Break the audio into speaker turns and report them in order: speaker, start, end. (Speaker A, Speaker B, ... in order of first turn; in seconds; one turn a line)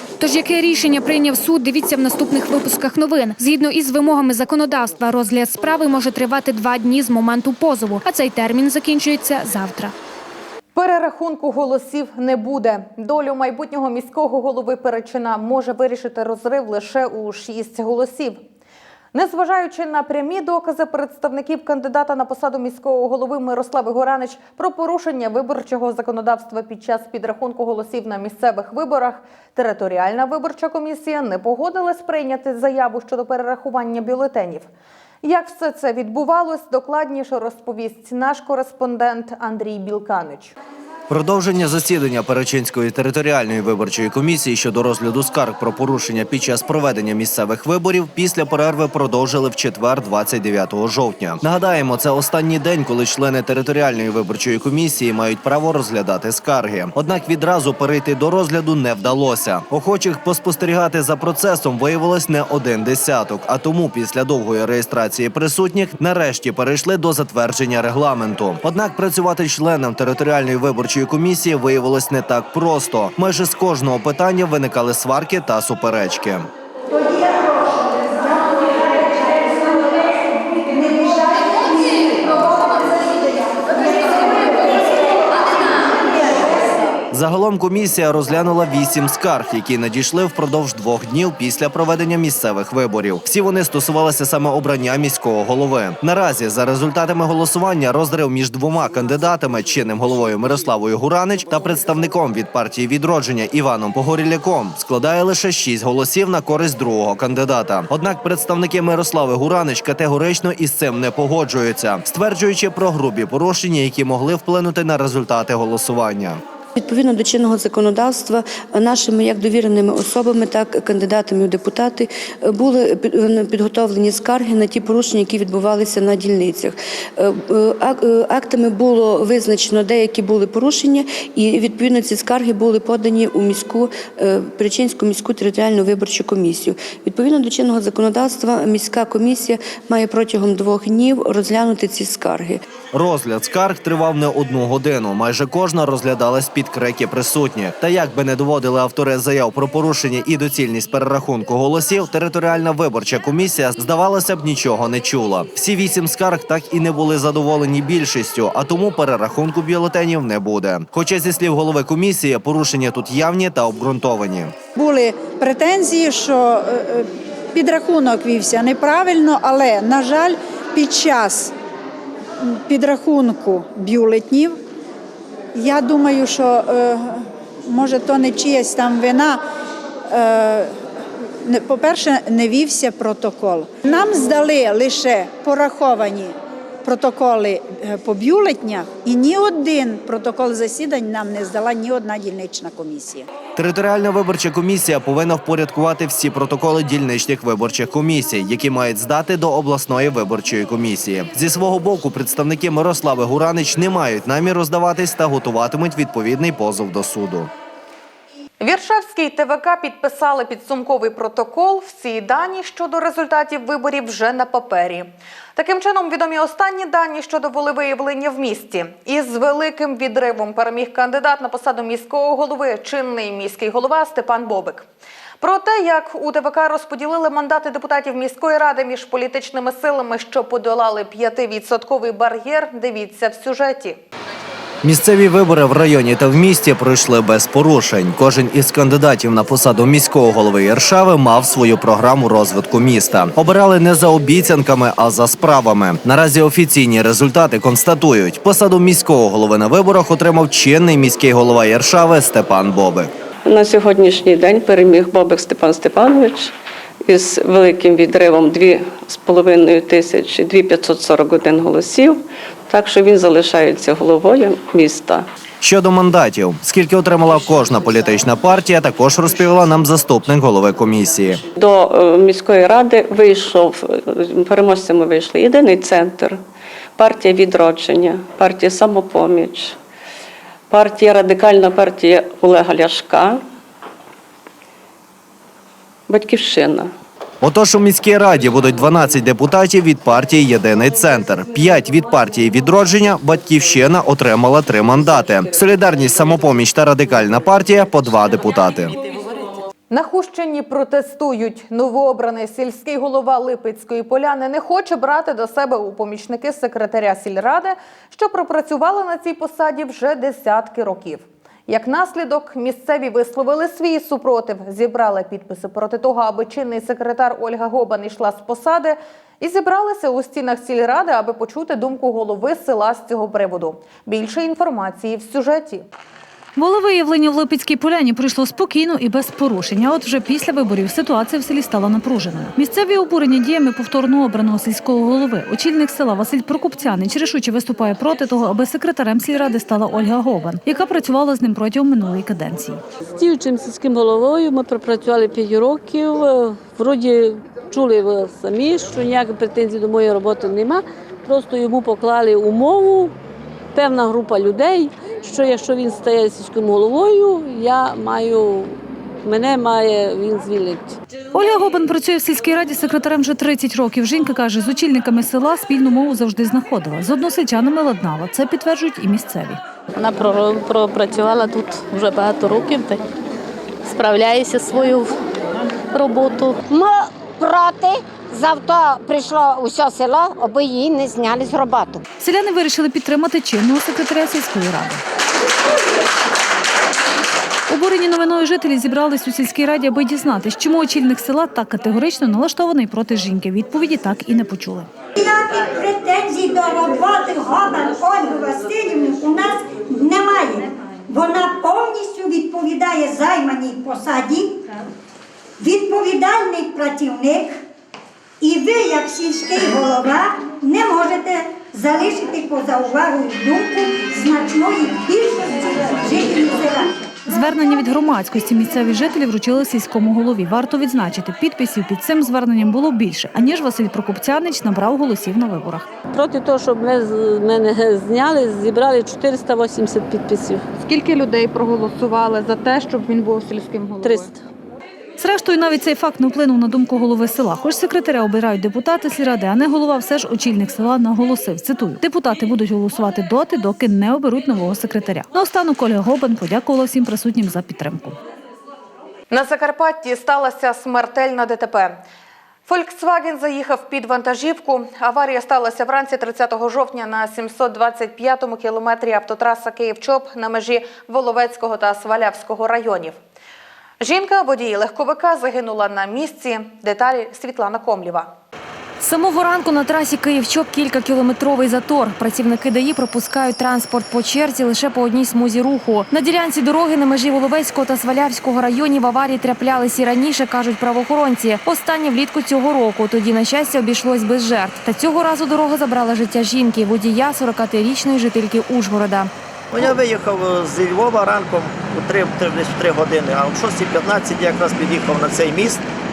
Speaker A: 0.2-9.9
Speaker B: 10.7-18.4
Speaker B: 19.1-34.7
Speaker B: 35.2-40.5
Speaker C: 41.1-76.5
Speaker D: 76.9-87.0
Speaker C: 87.1-116.4
Speaker E: 116.8-142.6
Speaker C: 142.9-164.6
Speaker D: 164.8-171.5
Speaker D: 172.4-174.6
Speaker D: 175.5-179.4
Speaker D: 180.1-180.8
Speaker D: 181.4-193.3
Speaker C: 193.6-207.5
Speaker B: 208.6-224.9
Speaker B: 225.4-234.0
Speaker C: 234.8-253.1
Speaker F: 253.4-256.5
Speaker F: 257.0-265.2
Speaker C: 265.6-271.4
Speaker F: 271.5-276.4
Speaker F: 277.0-279.8
Speaker F: 280.7-283.4
Speaker F: 286.1-286.9
Speaker C: 287.4-298.9
Speaker B: 299.9-325.8
Speaker G: 326.6-342.8
Speaker H: 343.1-353.1
Speaker H: 353.7-361.0
Speaker G: 361.3-369.6
Speaker I: 370.0-372.9
Speaker I: 373.9-375.1
Speaker I: 375.9-376.6
Speaker J: 376.7-382.0
Speaker G: 382.2-385.0
Speaker G: 387.7-394.9
Speaker D: 397.9-398.3
Speaker D: 416.1-416.3
Speaker G: 417.3-425.8
Speaker H: 426.1-430.6
Speaker B: 430.8-434.3
Speaker H: 434.0-434.3
Speaker G: 435.2-448.1
Speaker B: 449.3-452.0
Speaker B: 452.7-463.2
Speaker B: 464.0-468.3
Speaker K: 469.0-489.9
Speaker L: 489.7-495.8